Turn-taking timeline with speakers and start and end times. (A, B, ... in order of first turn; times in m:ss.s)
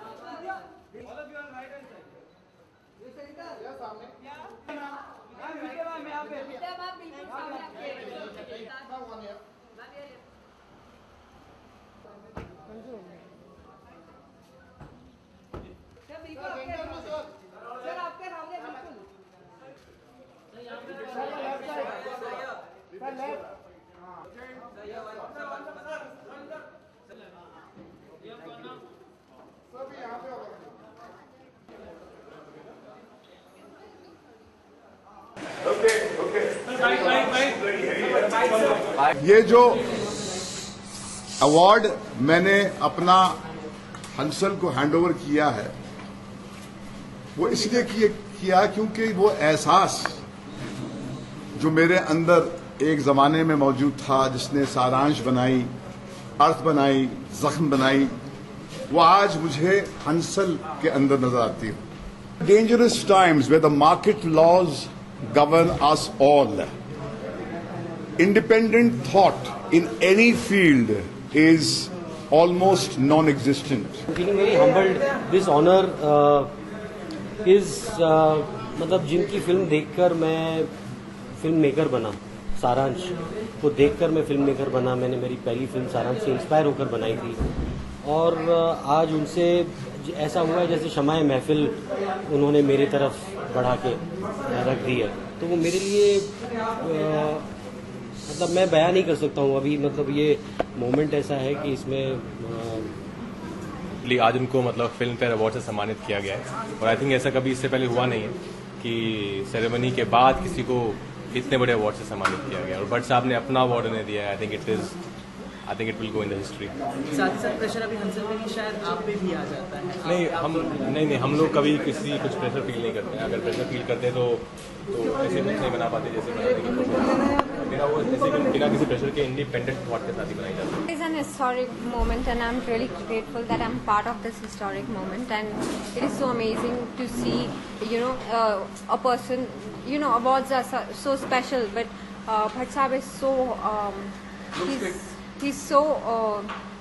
0:35.7-0:38.5 A
0:39.0-0:39.9 A
0:41.4-0:43.4 A
0:44.1-0:45.7 A
0:47.4-0:50.2 A
0:51.6-0:55.7 A
0:56.4-0:58.2 A
0:58.9-1:01.8 A
1:02.4-1:06.7 A
1:08.2-1:14.0 A
1:14.1-1:16.5 B
1:17.4-1:20.7 B
1:21.4-1:27.4 B
1:28.0-1:37.5 B
1:38.3-1:43.0 B
1:44.0-1:55.0 C
1:55.7-1:57.6 C
1:57.4-2:00.0 D
2:00.0-2:10.8 C
2:10.9-2:26.5 E